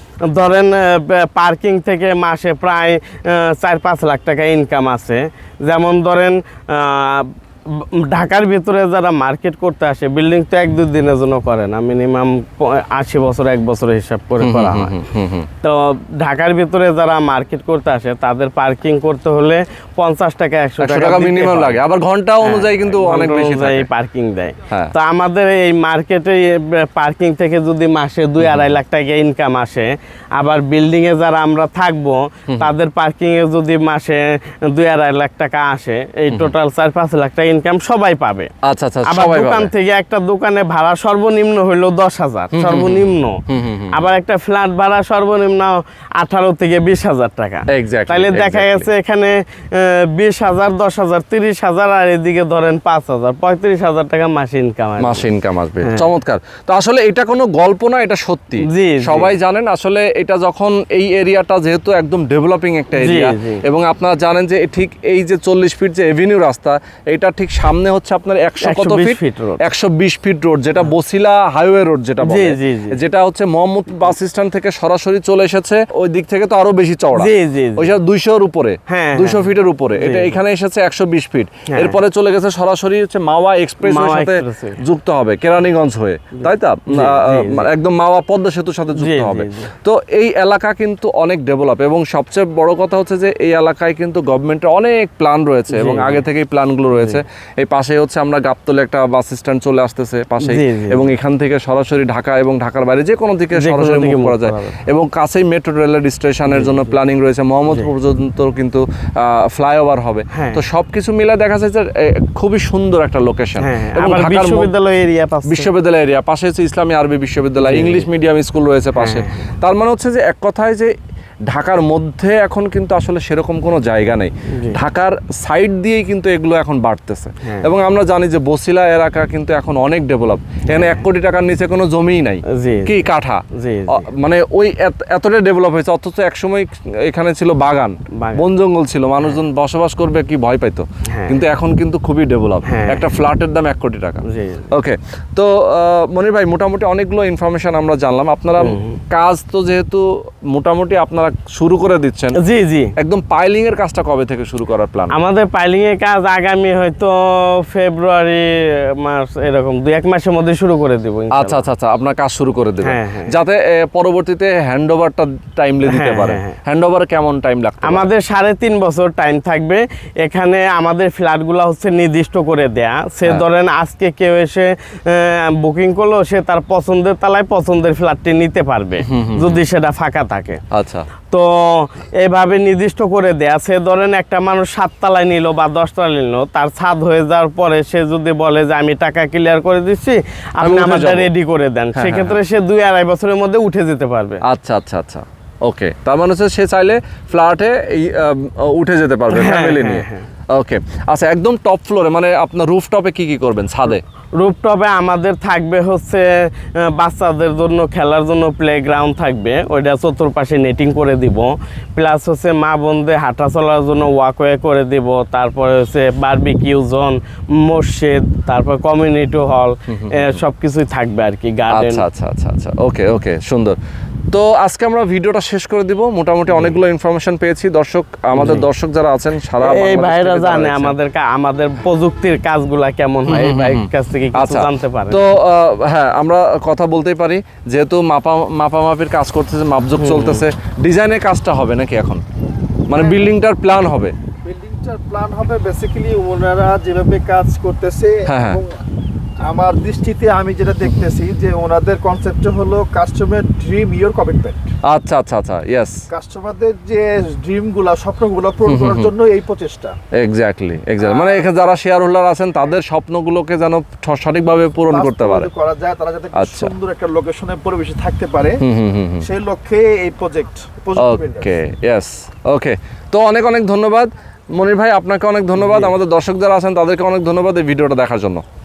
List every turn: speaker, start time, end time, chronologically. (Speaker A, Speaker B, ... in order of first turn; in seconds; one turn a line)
Speaker A: 0.3-15.0
Speaker B: 14.4-15.5
Speaker A: 15.6-21.8
Speaker B: 20.8-23.9
Speaker A: 22.4-38.5
Speaker B: 28.4-28.8
Speaker B: 38.6-39.7
Speaker A: 39.0-43.4
Speaker B: 42.5-44.0
Speaker A: 43.9-55.3
Speaker B: 47.7-48.9
Speaker B: 55.0-114.7
Speaker A: 55.8-56.1
Speaker A: 58.7-59.3
Speaker A: 63.0-63.6
Speaker A: 68.6-69.6
Speaker A: 72.2-73.0
Speaker A: 77.1-77.9
Speaker A: 78.9-80.4
Speaker A: 83.8-84.8
Speaker A: 86.3-87.7
Speaker A: 89.0-89.7
Speaker A: 95.7-96.2
Speaker A: 96.9-97.2
Speaker A: 100.4-101.1
Speaker A: 103.5-104.8
Speaker A: 106.5-106.9
Speaker A: 110.3-110.6
Speaker A: 113.6-115.7
Speaker B: 115.5-120.9
Speaker A: 117.6-118.0
Speaker A: 118.9-119.5
Speaker B: 121.5-152.4
Speaker A: 127.4-127.7
Speaker A: 130.7-131.0
Speaker A: 132.5-134.0
Speaker A: 138.2-138.4
Speaker A: 141.1-141.4
Speaker A: 142.6-143.1
Speaker A: 144.2-144.7
Speaker A: 148.6-149.0
Speaker A: 152.3-152.9
Speaker B: 153.0-155.1
Speaker A: 155.1-161.6
Speaker B: 161.3-168.1
Speaker A: 162.8-163.3
Speaker A: 165.9-166.6
Speaker A: 167.8-180.6
Speaker B: 179.1-179.6
Speaker B: 180.7-181.1
Speaker A: 181.3-194.4
Speaker B: 190.6-191.3
Speaker B: 191.9-192.4
Speaker B: 194.4-204.0
Speaker A: 199.3-200.3
Speaker A: 204.4-222.0
Speaker B: 219.9-220.4
Speaker B: 221.7-223.8
Speaker B: 224.3-230.9
Speaker A: 228.3-228.7
Speaker A: 229.6-235.2
Speaker B: 233.3-242.2
Speaker A: 240.0-240.5
Speaker B: 242.9-244.1
Speaker C: 242.9-243.2
Speaker C: 244.4-248.8
Speaker B: 248.2-248.6
Speaker C: 249.4-254.7
Speaker B: 254.8-255.9
Speaker C: 256.1-259.9
Speaker B: 258.6-259.1
Speaker B: 260.2-265.5
Speaker C: 261.0-261.5
Speaker C: 264.9-268.6
Speaker B: 266.3-266.7
Speaker B: 268.6-269.3
Speaker C: 269.2-271.5
Speaker B: 270.9-278.4